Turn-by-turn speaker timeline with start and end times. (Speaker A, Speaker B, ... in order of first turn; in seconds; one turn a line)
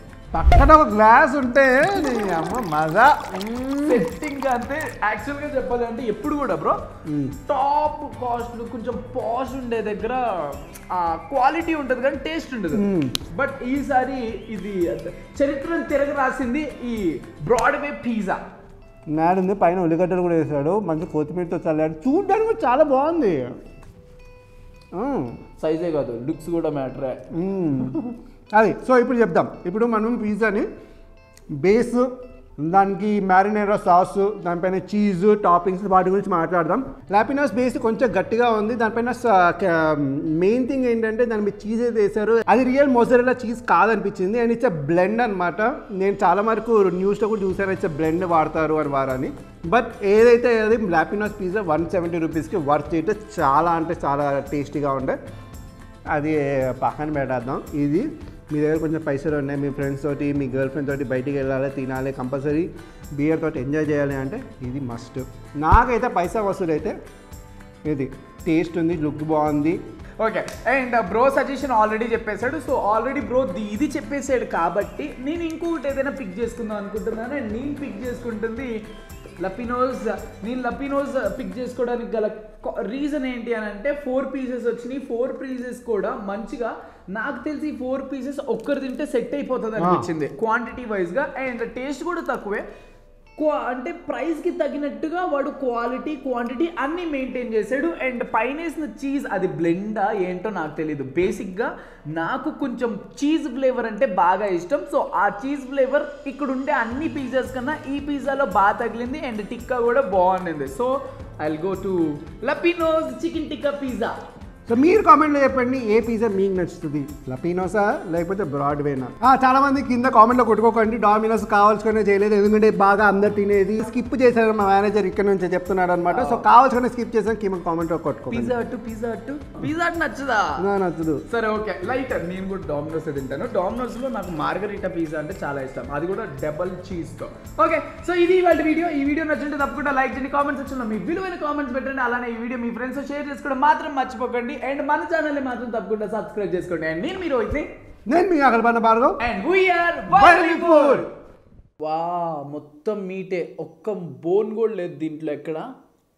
Speaker A: 0.3-4.0
Speaker B: 3.8-6.8
Speaker A: 7.0-7.3
Speaker B: 7.5-18.4
Speaker A: 12.7-13.2
Speaker A: 19.1-23.5
Speaker A: 24.9-25.4
Speaker B: 25.6-27.2
Speaker A: 27.3-28.0
Speaker A: 28.5-30.7
Speaker A: 31.6-55.2
Speaker A: 56.1-67.0
Speaker A: 67.8-69.8
Speaker B: 70.2-78.7
Speaker B: 79.4-92.6
Speaker A: 89.8-90.0
Speaker B: 93.4-114.1
Speaker A: 114.7-128.5
Speaker B: 126.1-126.5
Speaker B: 128.3-130.6
Speaker A: 130.6-131.2
Speaker B: 131.3-147.7
Speaker A: 148.1-149.2
Speaker B: 149.2-151.1
Speaker A: 150.1-151.1
Speaker B: 151.8-155.7